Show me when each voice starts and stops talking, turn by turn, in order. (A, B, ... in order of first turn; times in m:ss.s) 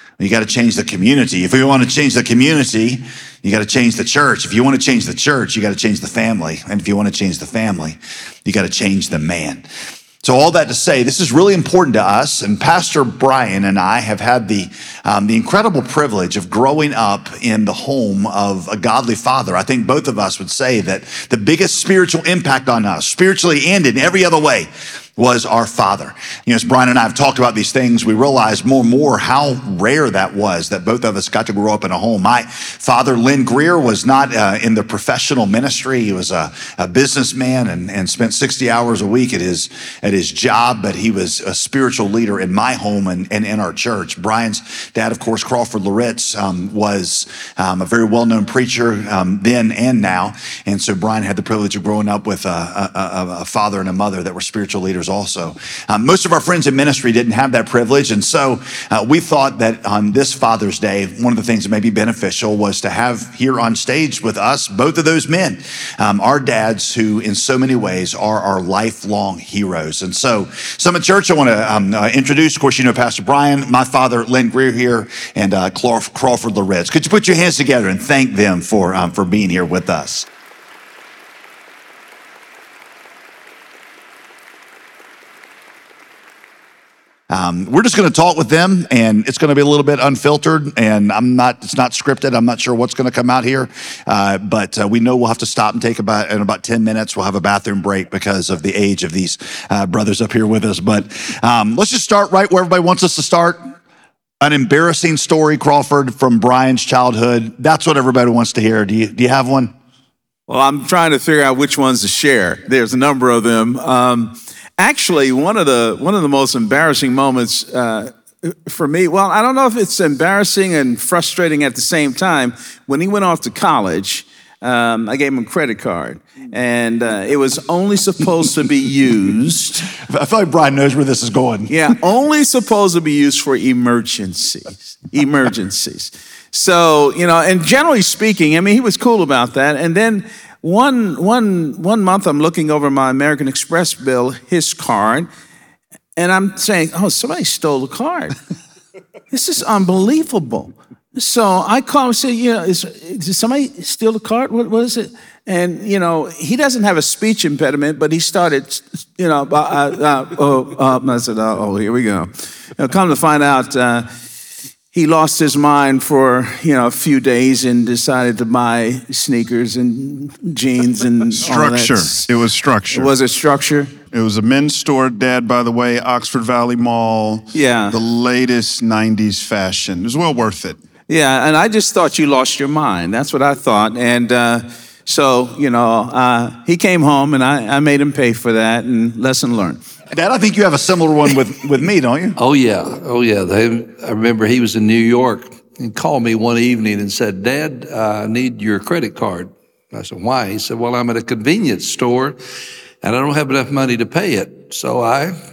0:00.2-0:09.6 A
0:10.2-1:20.3 A
1:27.3-1:43.7 A
1:44.4-1:49.7 A
1:50.5-2:09.8 B
2:10.0-2:11.7 A
2:11.7-2:25.3 B
2:26.2-2:28.4 B
2:29.3-2:44.1 B
2:44.9-2:52.3 B
2:51.4-2:53.1 C
2:52.9-2:53.9 B
2:54.1-3:00.8 C
2:57.5-2:58.0 B
3:01.1-3:09.8 B
3:10.1-3:12.4 A
3:12.4-3:22.4 D
3:23.0-3:25.4 D